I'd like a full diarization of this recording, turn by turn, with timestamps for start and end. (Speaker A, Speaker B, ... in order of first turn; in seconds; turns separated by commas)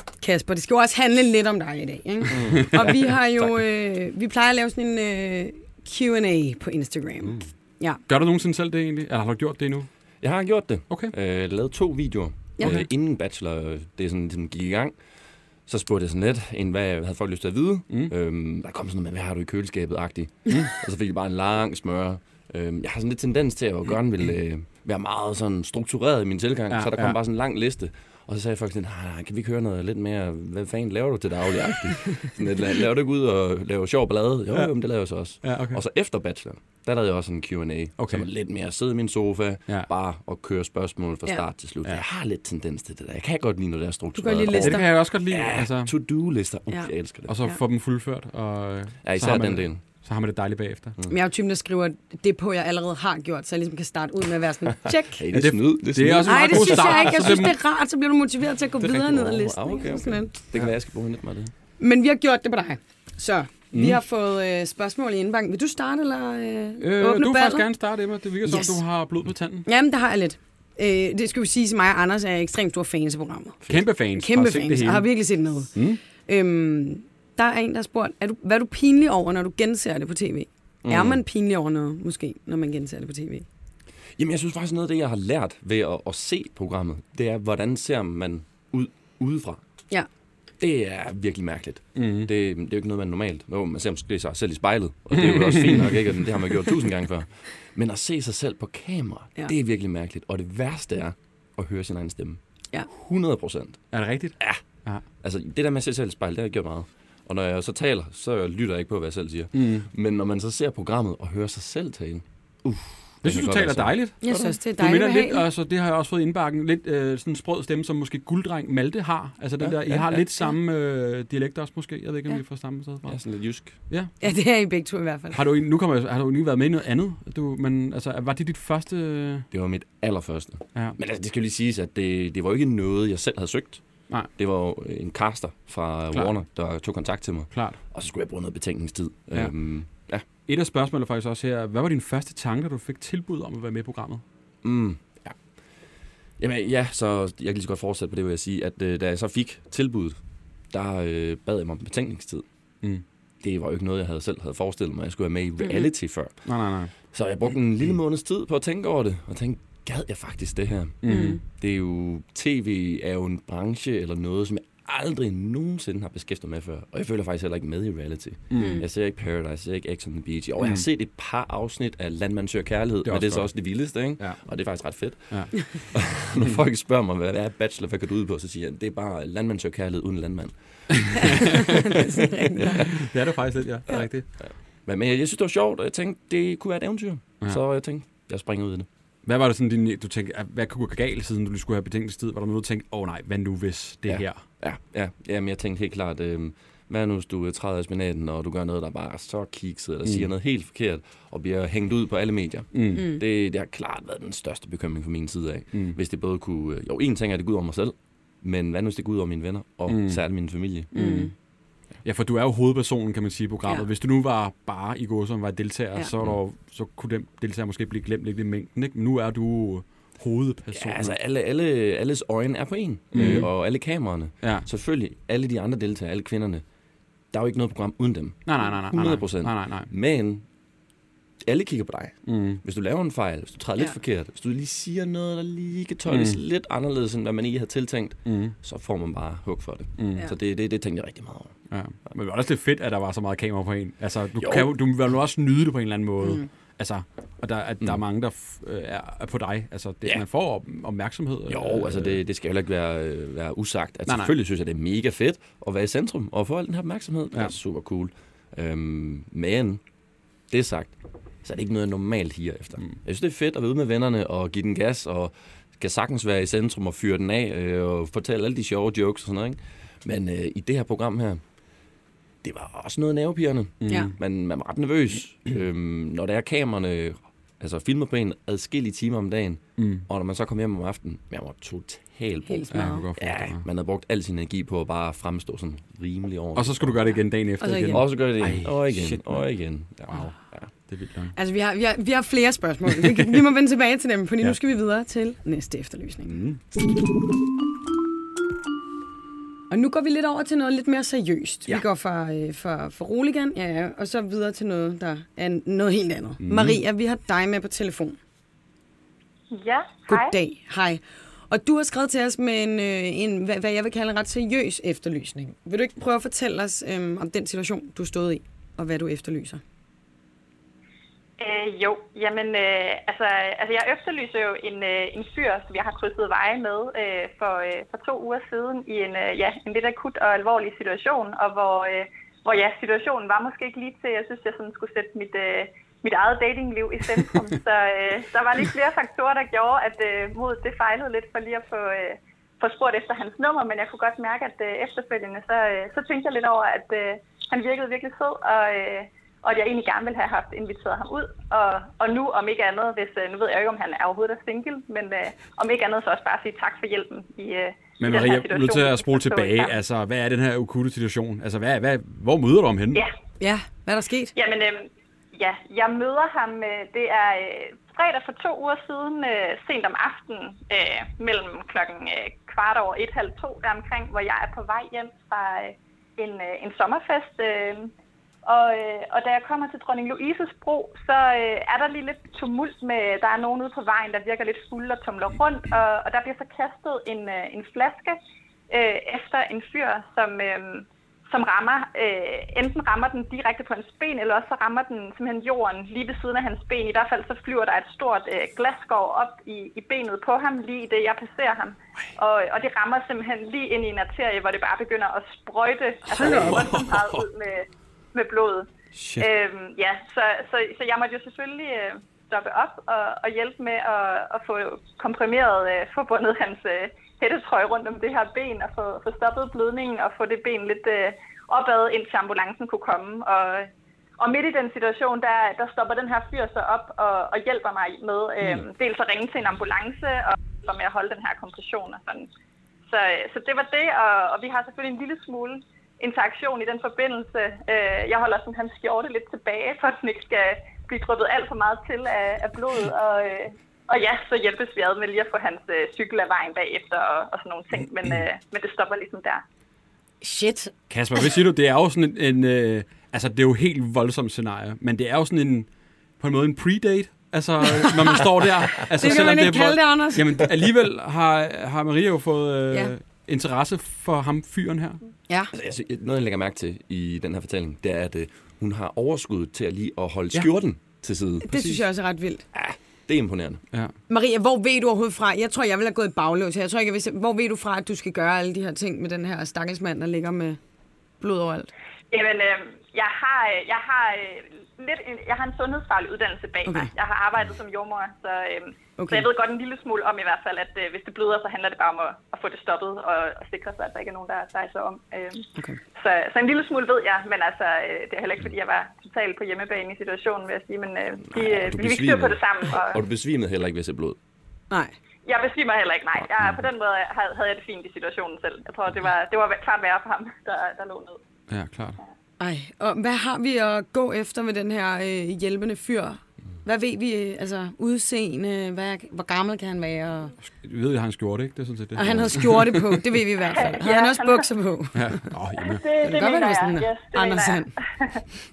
Speaker A: 0.2-8.0, Speaker B: 2.3-3.4, Speaker C: 2.6-2.9, Speaker C: 8.1-9.9, Speaker B: 10.2-14.9, Speaker B: 15.7-47.3, Speaker C: 26.7-27.2, Speaker C: 35.4-35.8, Speaker C: 38.0-38.2, Speaker A: 44.1-44.9, Speaker C: 44.5-45.9, Speaker C: 47.3-50.9, Speaker B: 49.0-49.8, Speaker A: 51.1-55.2, Speaker B: 55.1-57.4, Speaker C: 55.3-57.6, Speaker A: 56.2-60.3, Speaker B: 58.8-61.5, Speaker A: 61.8-67.7, Speaker C: 63.7-64.0, Speaker C: 66.8-69.7, Speaker A: 68.4-68.8, Speaker A: 69.7-83.5, Speaker C: 73.7-76.0, Speaker B: 80.8-81.2, Speaker B: 84.2-89.6, Speaker B: 90.6-103.8, Speaker C: 92.0-92.3, Speaker C: 95.1-96.0, Speaker C: 103.9-105.0, Speaker B: 105.2-114.0, Speaker C: 109.5-109.9, Speaker C: 113.2-123.2, Speaker A: 114.2-115.4, Speaker B: 119.6-120.2, Speaker B: 123.1-123.8, Speaker A: 124.2-125.4, Speaker C: 125.3-129.4, Speaker B: 129.5-133.8, Speaker B: 134.3-140.2, Speaker C: 137.5-137.8, Speaker C: 140.4-144.2, Speaker B: 144.6-145.3, Speaker B: 146.4-150.2, Speaker B: 150.7-152.4, Speaker B: 153.4-156.5, Speaker C: 156.4-156.9, Speaker B: 157.0-181.7, Speaker C: 161.0-161.4, Speaker A: 161.1-161.4, Speaker C: 168.5-168.8, Speaker A: 168.5-168.8, Speaker C: 173.0-174.4, Speaker C: 175.3-175.9, Speaker C: 181.0-182.0, Speaker A: 181.8-182.9, Speaker C: 182.7-184.3, Speaker B: 184.4-188.9, Speaker C: 189.2-194.4, Speaker B: 194.1-210.9, Speaker C: 202.7-203.1, Speaker A: 202.9-203.2, Speaker C: 209.9-210.2, Speaker C: 210.9-211.3, Speaker A: 210.9-211.3, Speaker C: 212.0-221.1, Speaker B: 220.7-226.6, Speaker C: 223.1-223.5, Speaker B: 227.3-230.4, Speaker C: 228.4-229.9, Speaker B: 231.4-241.6, Speaker C: 232.2-232.6, Speaker C: 236.1-236.4, Speaker C: 238.2-238.5, Speaker C: 240.0-240.3, Speaker C: 241.7-252.2, Speaker B: 244.4-244.7, Speaker A: 246.2-246.5, Speaker B: 251.5-259.8, Speaker C: 254.1-254.3, Speaker B: 260.5-271.4, Speaker B: 272.4-287.0, Speaker C: 273.8-274.1, Speaker A: 273.9-274.1, Speaker C: 279.8-280.0, Speaker A: 282.5-283.1, Speaker C: 282.7-283.6, Speaker C: 286.6-289.4, Speaker A: 287.6-288.0, Speaker B: 287.9-290.7, Speaker C: 290.1-290.3, Speaker C: 290.9-291.3, Speaker A: 291.4-296.4, Speaker C: 296.3-296.6, Speaker A: 299.7-308.2, Speaker C: 306.4-306.8, Speaker D: 309.5-310.3, Speaker A: 310.1-319.6, Speaker D: 321.4-359.8, Speaker C: 358.0-363.0, Speaker A: 363.4-364.3, Speaker D: 364.4-377.9, Speaker D: 378.4-388.2, Speaker D: 388.7-432.3, Speaker A: 406.1-406.6, Speaker C: 406.2-407.2, Speaker C: 408.9-409.3, Speaker D: 432.9-449.4, Speaker A: 450.2-450.7, Speaker C: 450.9-455.7, Speaker C: 456.2-465.0, Speaker A: 457.6-458.2, Speaker A: 458.8-460.4, Speaker B: 465.5-471.5, Speaker A: 471.4-472.4, Speaker B: 472.5-473.6, Speaker A: 474.1-480.6, Speaker A: 481.2-481.7, Speaker D: 482.1-503.0, Speaker A: 486.6-486.9, Speaker A: 489.0-489.3, Speaker B: 501.3-504.2, Speaker A: 504.7-504.9, Speaker D: 505.2-511.2, Speaker C: 511.5-512.0, Speaker A: 512.4-520.3, Speaker C: 520.5-523.1, Speaker A: 521.9-525.2, Speaker B: 522.0-522.4, Speaker D: 523.6-524.5, Speaker C: 524.9-525.8, Speaker D: 525.6-528.2, Speaker A: 526.0-527.7